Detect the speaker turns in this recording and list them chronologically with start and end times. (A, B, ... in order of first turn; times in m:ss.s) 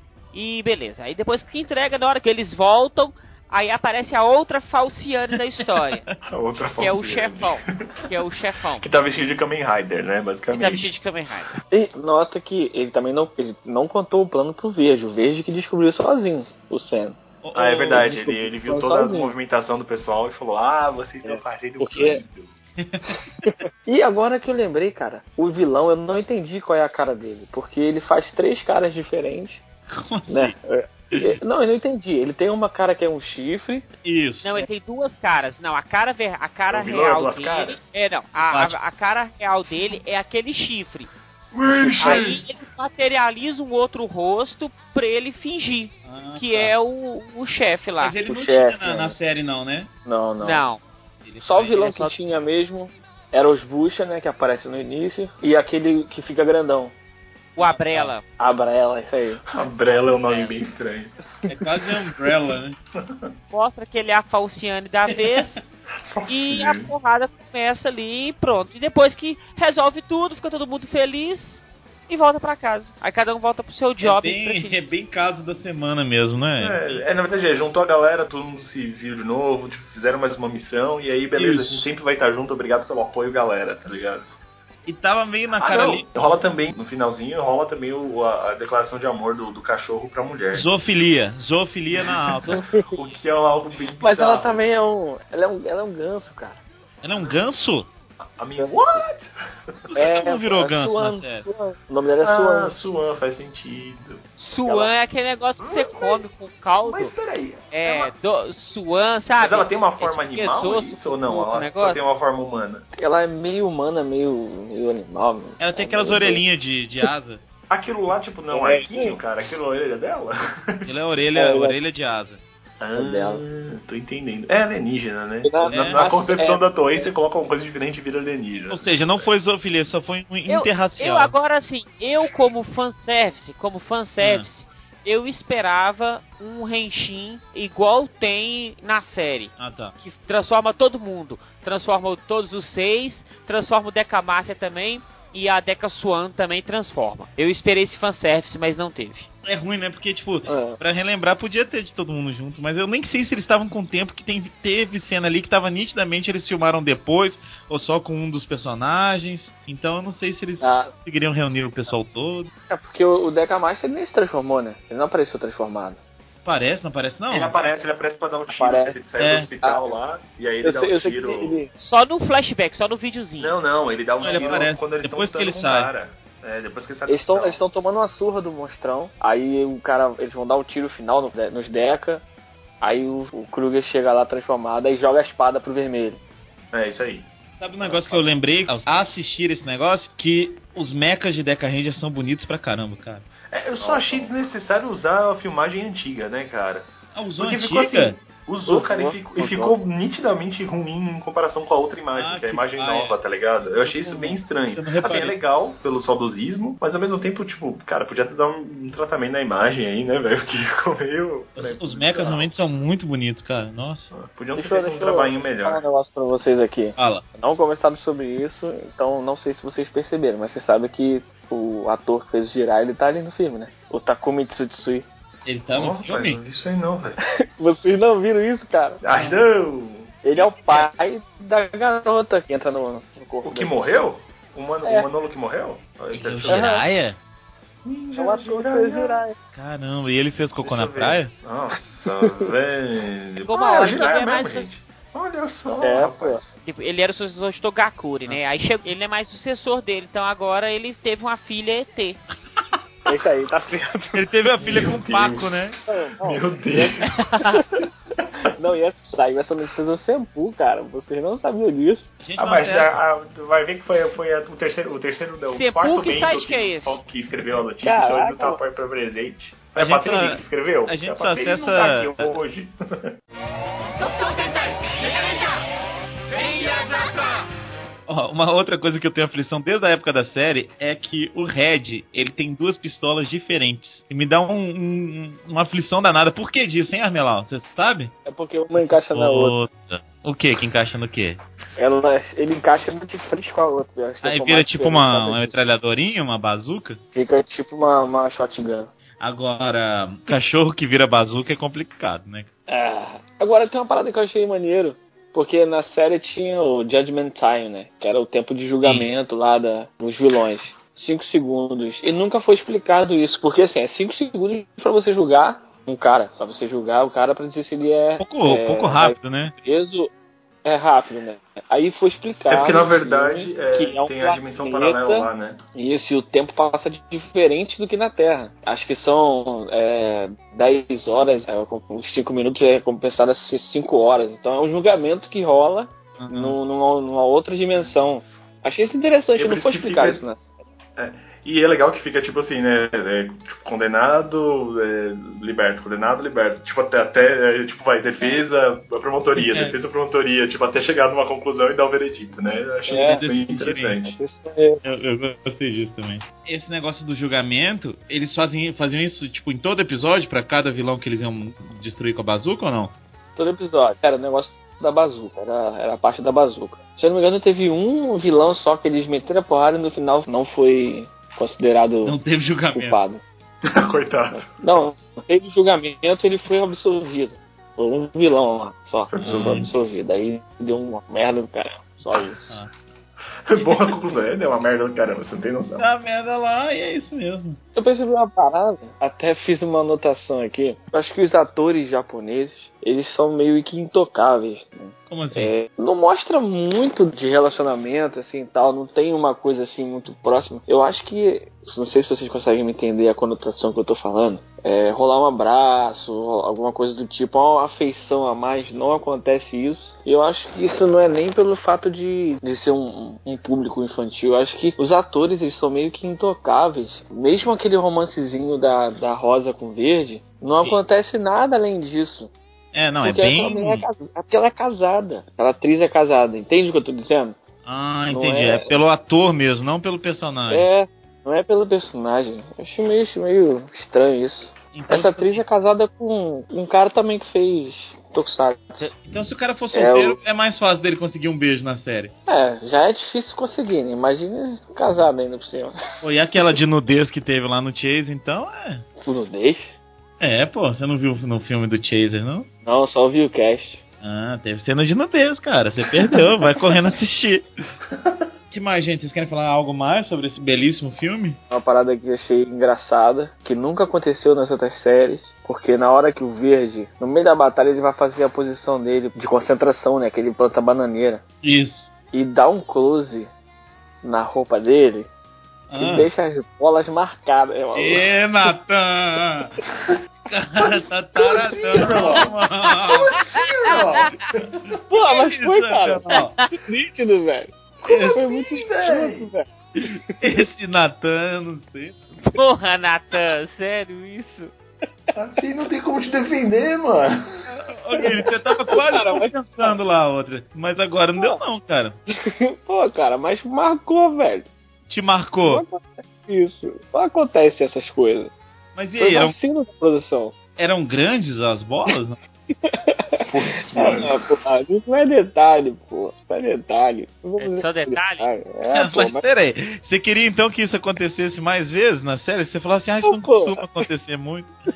0:00.3-0:06.0 A
0:06.2-0:07.6 B
0:06.6-0:08.9 A
0:08.8-0:10.9 B
0:10.5-0:11.5 A
0:11.7-0:17.2 C
0:17.4-0:18.2 D
0:17.5-0:22.5 B
0:17.9-0:19.3 C
0:21.2-0:22.2 C
0:22.8-0:23.2 D
0:23.4-0:29.6 C
0:29.9-0:30.5 D
0:30.3-0:33.8 C
0:31.1-0:31.4 D
0:34.0-0:34.7 D
0:34.4-0:41.1 A
0:36.7-0:37.8 B
0:38.5-0:38.8 D
0:41.5-0:42.4 B
0:41.6-0:42.3 C
0:42.0-0:48.1 A
0:46.0-0:46.7 D
0:48.0-0:49.9 D
0:48.2-0:49.2 C
0:50.0-0:50.6 C
0:50.4-0:50.8 A
0:51.2-0:52.1 D
0:51.4-0:56.9 C
0:51.8-0:52.1 A
0:57.6-0:58.2 A
0:57.6-0:58.1 D
0:58.4-0:59.4 C
0:59.5-1:01.1 B
0:59.9-1:00.5 D
1:01.5-1:02.8 D
1:03.0-1:03.3 B
1:03.5-1:05.6 A
1:05.1-1:05.6 D
1:06.0-1:06.9 B
1:06.3-1:14.7 A
1:14.0-1:17.0 D
1:16.6-1:24.3 B
1:21.4-1:21.9 D
1:24.8-1:26.1 D
1:25.6-1:30.7 B
1:30.5-1:32.6 D
1:32.5-1:32.9 C
1:32.9-1:34.6 B
1:34.0-1:36.6 C
1:37.0-1:37.9 D
1:38.2-1:39.3 B
1:38.6-1:39.0 C
1:39.9-1:41.5 D
1:40.0-1:42.8 C
1:42.2-1:44.2 B
1:44.4-1:47.1 A
1:44.6-1:44.9 C
1:45.6-1:46.3 B
1:46.8-1:48.1 B
1:47.7-1:52.0 A
1:49.4-1:52.8 B
1:52.9-1:56.4 C
1:55.6-1:57.4 D
1:57.7-2:00.9 B
1:58.5-1:59.2 C
2:00.8-2:02.4 D
2:01.3-2:01.8 C
2:02.8-2:09.3 B
2:03.0-2:03.4 C
2:05.4-2:07.1 C
2:05.6-2:06.0 D
2:08.7-2:11.4 D
2:10.5-2:29.3 A
2:14.2-2:14.5 D
2:19.6-2:19.9 D
2:29.4-2:42.5 D
2:30.4-2:30.8 C
2:40.6-2:40.9 C
2:42.7-2:46.0 C
2:46.4-2:47.6 D
2:47.3-2:51.6 B
2:48.5-2:49.0 C
2:49.2-2:49.5 D
2:49.6-2:49.9 C
2:50.6-2:51.7 C
2:51.8-2:53.6 A
2:53.4-2:57.6 B
2:54.2-2:55.9 D
2:54.2-2:54.7 C
2:57.1-3:02.2 C
3:02.8-3:06.2 C
3:06.7-3:07.3 B
3:07.6-3:13.2 D
3:07.8-3:08.3 B
3:13.5-3:32.5 B
3:13.8-3:14.3 C
3:17.1-3:18.2 D
3:18.6-3:19.8 C
3:22.1-3:23.2 D
3:23.8-3:25.4 D
3:31.6-3:34.1 D
3:34.1-3:35.8 B
3:34.5-3:45.1 C
3:37.0-3:37.2 D
3:45.4-3:46.4 D
3:45.7-3:47.2 B
3:47.4-3:49.0 C
3:49.0-3:50.2 B
3:49.1-3:49.4 D
3:50.2-3:54.0 C
3:53.4-3:56.8 B
3:56.1-3:57.2 D
3:56.5-3:56.8 C
3:57.8-3:59.2 B
3:58.2-3:59.4 C
3:59.5-4:01.3 D
4:00.6-4:06.6 B
4:02.2-4:02.4 C
4:03.4-4:04.7 A
4:05.8-4:06.4 C
4:06.6-4:12.2 A
4:13.0-4:14.2 C
4:14.1-4:15.8 D
4:14.6-4:15.7 B
4:15.9-4:17.6 C
4:16.2-4:17.1 B
4:18.5-4:22.1 C
4:22.2-4:23.0 D
4:22.4-4:32.7 B
4:25.5-4:27.0 A
4:27.8-4:28.6 C
4:29.8-4:32.4 D
4:38.1-4:48.1 D
4:48.2-4:49.5 C
4:48.8-4:51.4 D
4:51.8-4:55.7 C
4:54.2-4:57.0 D
4:57.1-4:58.9 C
4:59.2-5:02.5 D
5:02.7-5:20.1 C
5:18.2-5:19.5 D
5:20.6-5:40.5 C
5:22.5-5:25.6 B
5:36.2-5:36.6 D
5:39.4-5:40.2 B
5:41.0-5:54.2 B
5:49.4-5:49.7 D
5:52.9-5:53.2 C
5:53.0-5:54.0 D
5:54.0-5:54.8 C
5:54.8-6:02.9 D
6:03.4-6:12.2 C
6:12.0-6:13.0 D
6:12.7-6:13.2 C
6:13.6-6:14.8 B
6:14.3-6:22.6 C
6:19.1-6:19.7 B
6:19.2-6:19.7 D
6:23.5-6:25.9 B
6:25.8-6:27.6 D
6:27.7-7:02.3 C
6:35.1-6:35.5 D
7:02.7-7:03.8 D
7:03.0-7:07.4 C
7:07.6-7:10.6 D
7:08.1-7:08.7 C
7:10.5-7:18.9 C
7:14.7-7:15.4 D
7:19.0-7:22.1 D
7:19.7-7:20.2 C
7:22.3-7:25.7 C
7:26.0-7:28.8 D
7:29.0-7:29.8 C
7:30.2-7:32.5 D
7:32.6-7:33.8 C
7:34.0-7:37.4 D
7:37.9-7:38.2 B
7:38.5-7:41.4 D
7:41.5-7:51.2 C
7:51.4-7:51.9 D
7:52.1-7:53.3 C
7:54.0-7:55.1 C
7:55.7-7:56.1 D
7:55.7-7:58.1 C
7:57.7-7:59.6 D
8:00.3-8:03.1 D
8:01.2-8:02.2 C
8:01.5-8:02.3 B
8:03.1-8:03.7 A
8:03.1-8:04.6 B
8:04.9-8:07.5 C
8:05.0-8:06.3 D
8:07.8-8:08.2 D
8:07.8-8:09.3 B
8:08.1-8:10.0 C
8:10.2-8:12.0 D
8:12.2-8:14.5 A
8:15.1-8:17.3 B
8:17.5-8:22.0 D
8:18.7-8:19.8 C
8:22.2-8:24.5 C
8:24.9-8:25.6 D
8:25.4-8:28.3 C
8:28.8-8:29.4 D
8:29.0-8:30.4 C
8:30.6-8:32.2 D
8:32.6-8:39.2 C
8:33.2-8:34.1 B
8:37.4-8:38.3 A
8:38.7-8:44.5 D
8:43.0-8:43.8 C